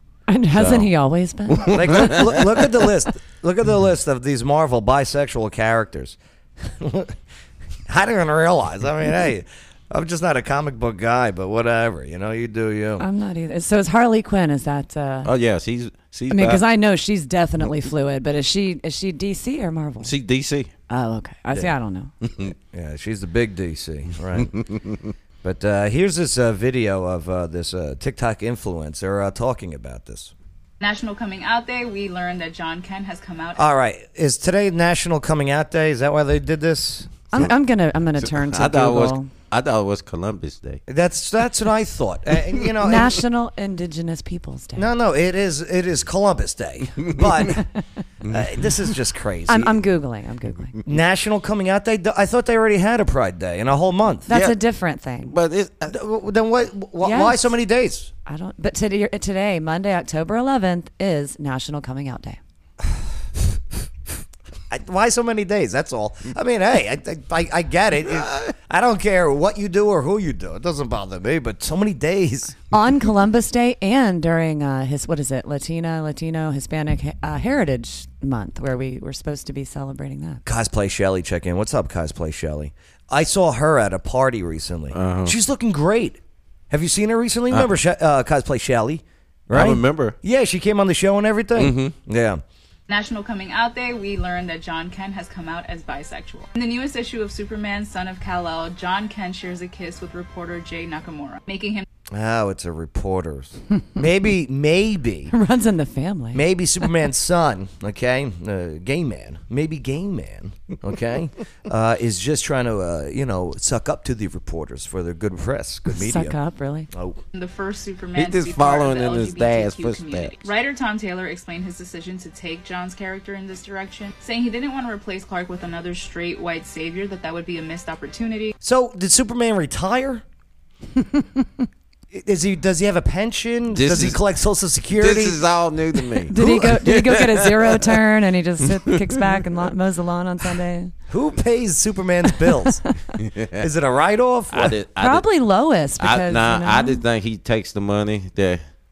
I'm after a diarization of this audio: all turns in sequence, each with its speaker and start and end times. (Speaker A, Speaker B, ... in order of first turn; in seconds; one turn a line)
Speaker A: 0.3-2.2
Speaker B: 0.5-0.9
Speaker B: 1.5-2.6
Speaker C: 1.7-7.2
Speaker C: 7.9-13.1
Speaker A: 13.0-15.3
Speaker B: 15.2-16.6
Speaker A: 16.3-20.1
Speaker B: 20.0-20.7
Speaker A: 20.9-22.1
Speaker B: 22.2-22.5
Speaker C: 22.6-24.6
Speaker B: 24.5-25.1
Speaker C: 25.4-30.3
Speaker D: 30.8-33.6
Speaker C: 33.6-37.2
Speaker A: 37.3-39.3
Speaker B: 38.3-40.8
Speaker C: 40.9-43.2
Speaker A: 42.8-44.9
Speaker C: 44.8-47.7
Speaker C: 48.2-49.8
Speaker A: 49.5-50.8
Speaker C: 50.9-54.3
Speaker A: 54.3-55.4
Speaker B: 54.3-54.6
Speaker B: 55.3-55.9
Speaker C: 55.9-58.1
Speaker A: 57.0-57.5
Speaker A: 58.3-62.4
Speaker C: 64.7-72.6
Speaker A: 72.7-80.4
Speaker C: 80.5-92.4
Speaker B: 84.9-85.3
Speaker B: 89.5-90.2
Speaker B: 91.6-91.9
Speaker D: 92.9-101.9
Speaker C: 102.1-105.3
Speaker A: 105.3-106.4
Speaker C: 106.3-116.4
Speaker A: 115.9-116.9
Speaker C: 116.9-117.2
Speaker D: 117.3-128.5
Speaker B: 118.2-120.4
Speaker C: 128.6-130.2
Speaker A: 131.1-131.4
Speaker C: 132.1-135.4
Speaker B: 133.7-134.2
Speaker B: 135.0-137.8
Speaker A: 136.3-140.9
Speaker C: 136.4-136.8
Speaker C: 141.1-142.8
Speaker B: 143.2-143.7
Speaker C: 143.6-144.8
Speaker B: 144.5-145.3
Speaker A: 145.0-147.0
Speaker B: 146.0-148.6